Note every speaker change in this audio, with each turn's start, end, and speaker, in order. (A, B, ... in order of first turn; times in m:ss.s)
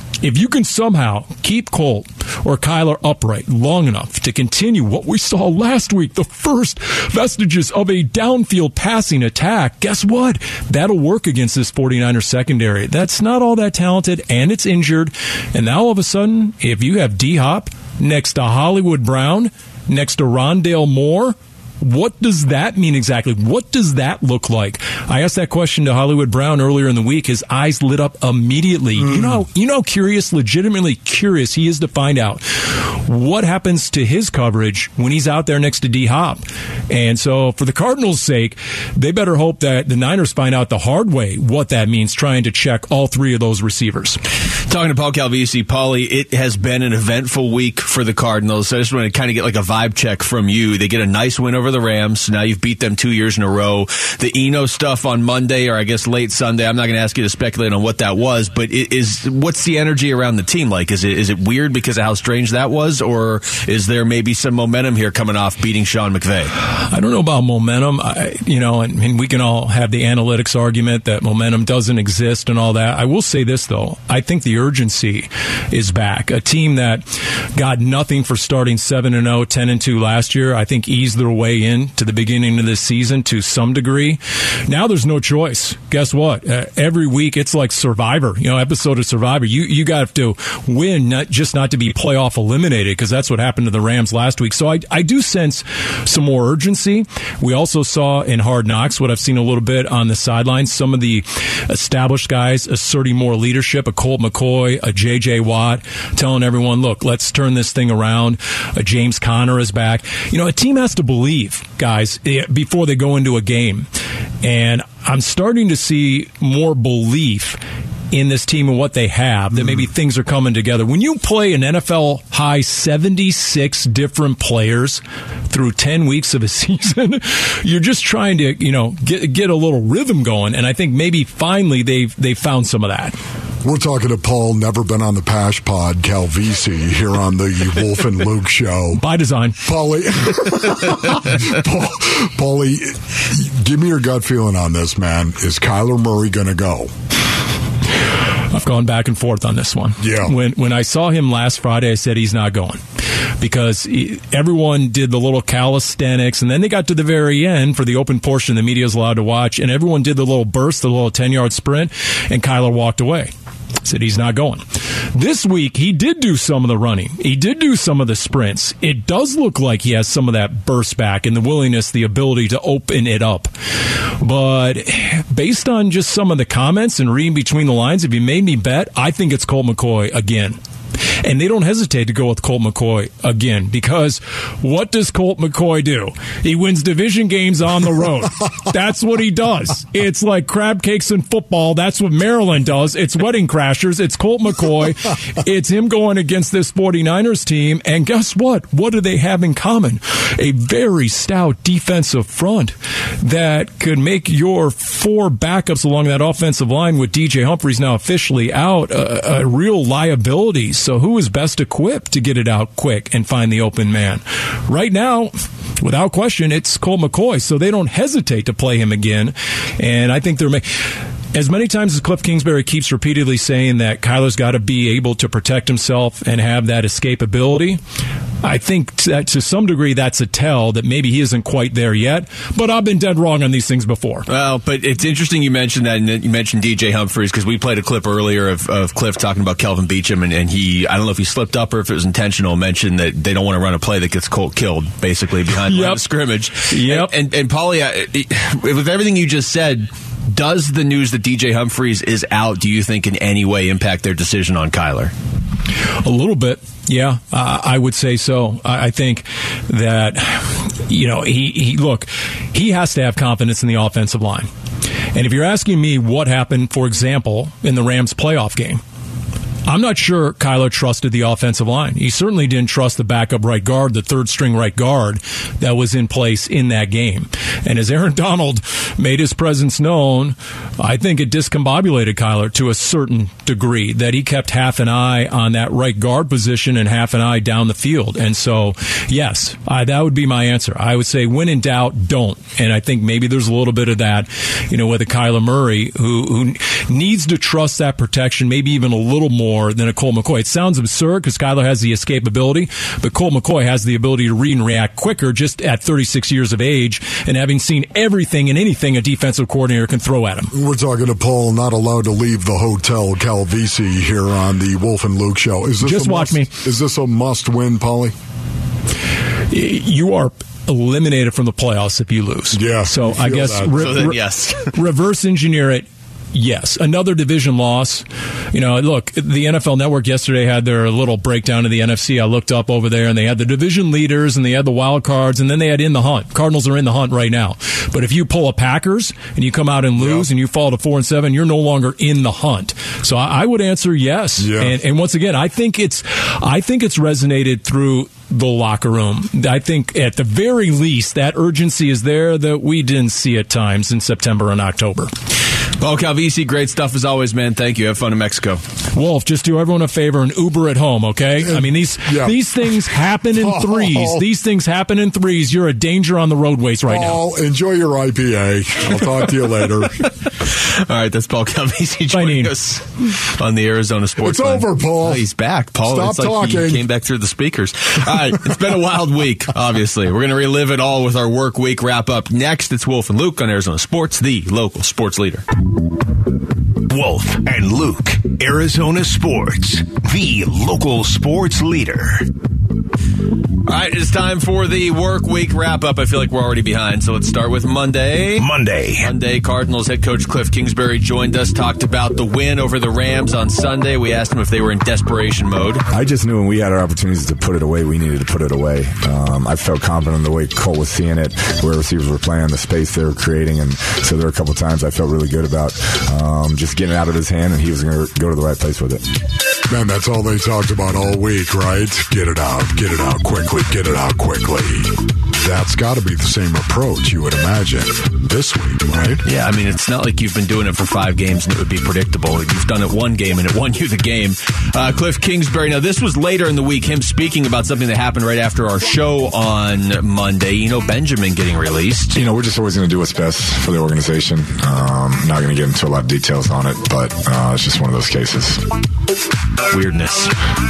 0:00.2-0:44.2 A
0:29.0-0:29.4 B
0:44.7-1:06.5 C
1:06.7-1:53.9 A
1:54.4-1:57.6 A
1:58.1-2:13.2 A
2:13.6-2:19.0 B
2:19.0-2:19.6 A
2:19.6-2:26.9 B
2:28.5-2:32.8 A
2:30.0-2:30.3 B
2:33.4-2:43.3 A
2:43.8-2:44.6 A
2:45.1-2:53.5 A
2:54.2-3:00.6 A
3:01.2-3:40.6 A
3:41.3-3:47.8 A
3:48.4-3:54.3 A
3:54.3-4:15.1 C
4:05.7-4:06.0 A
4:06.7-4:07.1 A
4:16.0-4:24.5 A
4:25.1-4:28.8 A
4:29.7-5:10.5 A
5:10.5-5:18.1 B
5:15.8-5:16.5 A
5:19.5-5:55.1 A
5:22.5-5:24.0 B
5:23.8-5:24.7 C
5:40.0-5:40.3 B
5:44.4-5:44.8 B
5:55.8-5:58.6 C
5:58.9-6:07.2 A
6:01.4-6:04.2 B
6:06.9-6:10.1 B
6:10.4-6:25.4 C
6:12.1-6:12.5 A
6:14.2-6:15.2 B
6:15.8-6:16.8 B
6:26.9-6:32.3 D
6:33.7-6:38.5 C
6:38.4-6:39.1 D
6:39.0-6:45.8 C
6:45.9-6:59.0 E
6:59.7-7:09.2 B
7:09.2-7:22.2 C
7:22.1-7:28.6 E
7:29.7-7:30.3 C